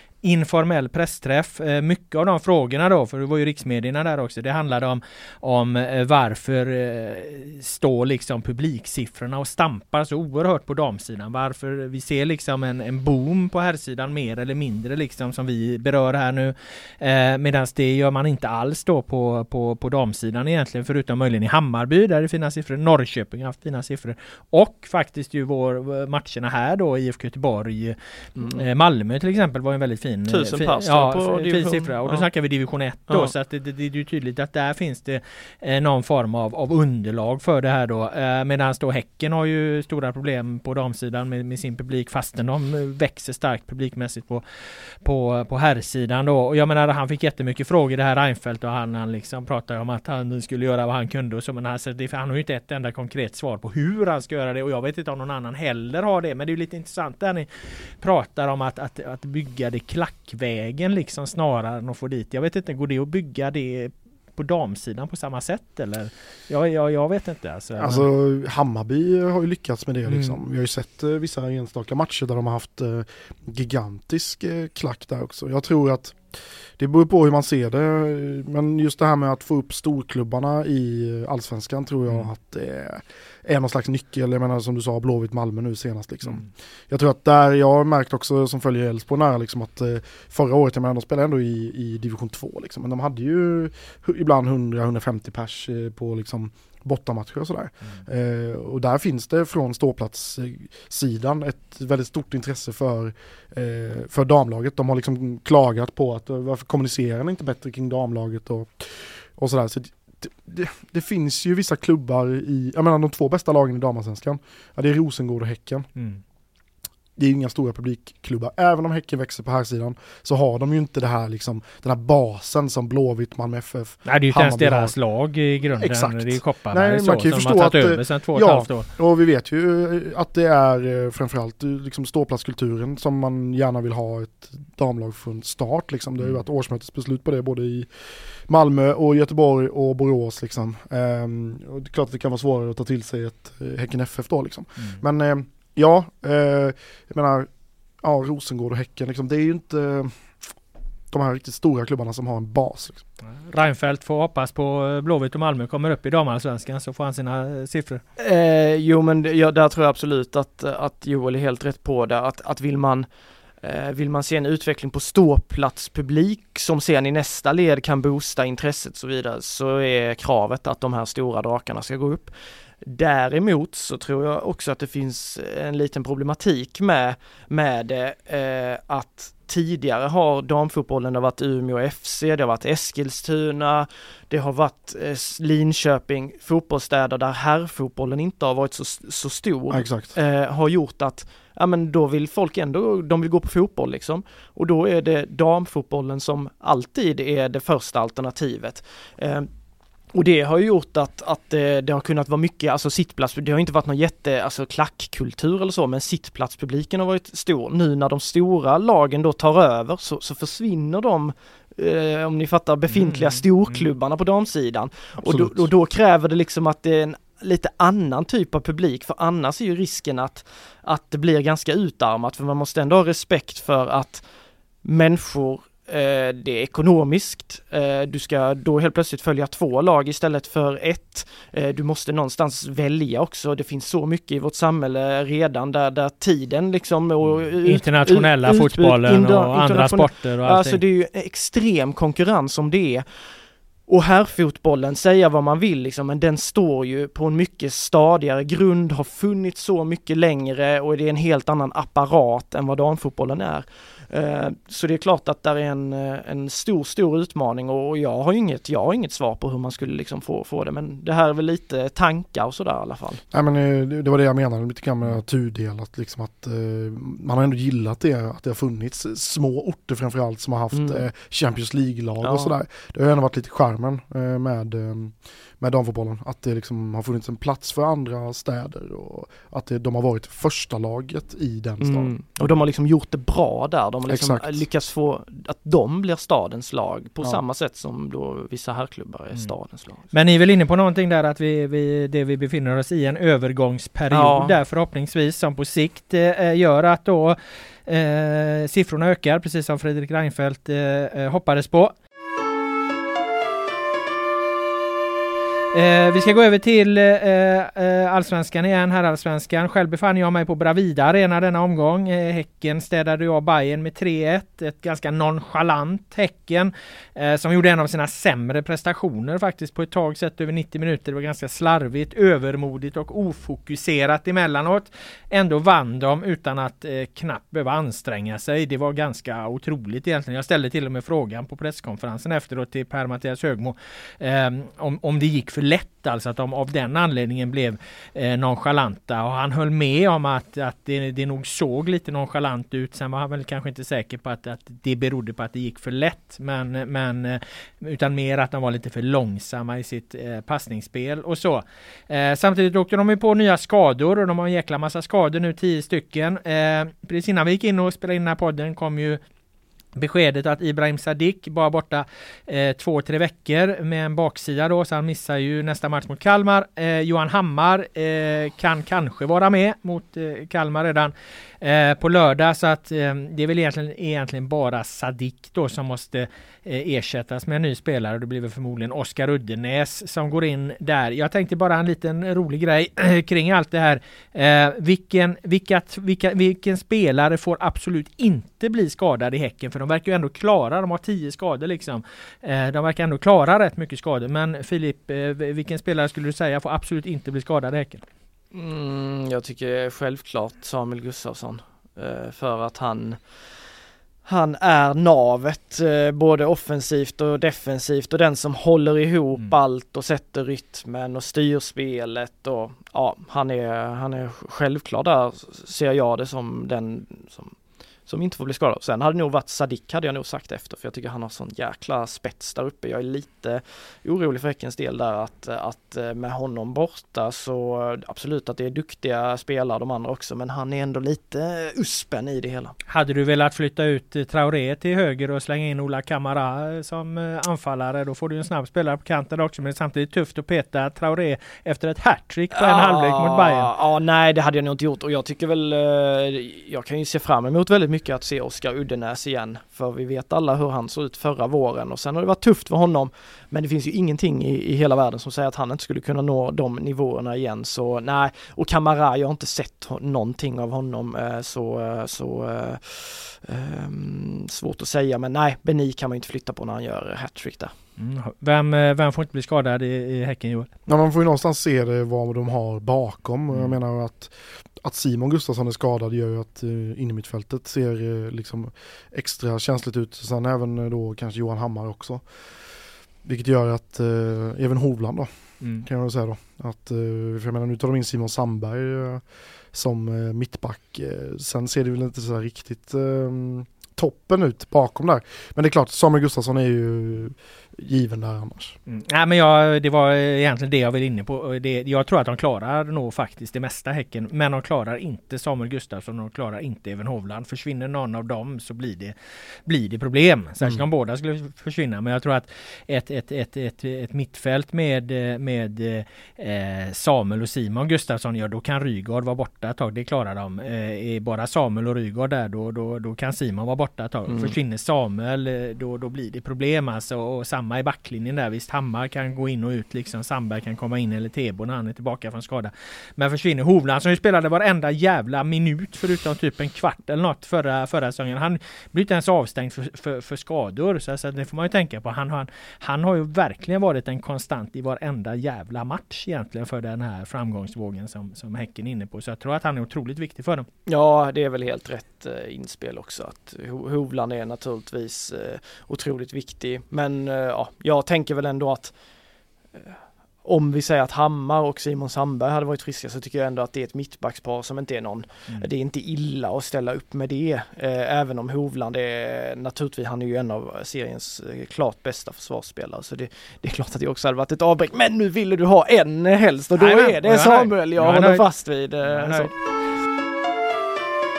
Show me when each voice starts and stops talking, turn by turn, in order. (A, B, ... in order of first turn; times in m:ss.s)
0:00.2-0:44.4 A
0:28.4-0:28.6 B
0:30.3-0:32.2 B
0:33.1-0:33.3 B
0:45.0-1:08.1 A
1:07.8-1:55.9 C
1:10.1-1:10.4 A
1:56.0-1:56.2 A
1:57.2-2:05.0 C
2:04.0-2:08.9 A
2:05.8-2:17.9 C
2:18.5-2:27.5 C
2:28.0-2:30.4 C
2:31.1-2:33.0 C
2:33.2-2:38.0 A
2:38.2-2:43.1 B
2:43.6-2:52.3 B
2:52.8-3:19.5 B
3:09.7-3:10.2 C
3:20.1-3:44.2 B
3:32.9-3:33.8 A
3:35.2-3:35.7 C
3:44.8-4:03.0 B
3:57.3-4:00.8 A
4:03.9-4:23.2 B
4:23.3-4:42.1 C
4:30.7-4:31.0 B
4:32.2-4:32.5 B
4:41.8-4:50.1 B
4:44.1-4:44.6 C
4:50.1-5:01.9 A
4:54.1-4:54.6 B
5:05.7-5:59.2 A
6:00.0-6:38.0 A
6:38.5-6:43.2 B
6:44.2-6:57.5 B
6:58.1-7:12.8 B
7:12.9-7:23.7 A
7:22.5-7:47.7 B
7:48.0-7:50.7 A
7:50.9-8:02.2 C
8:03.2-8:18.8 C
8:05.6-8:05.8 A
8:18.9-8:29.1 A
8:29.6-9:10.7 A
8:44.3-8:44.6 B
9:10.8-9:18.9 B
9:19.8-9:39.5 B
9:36.8-9:38.4 A
9:39.1-9:39.5 A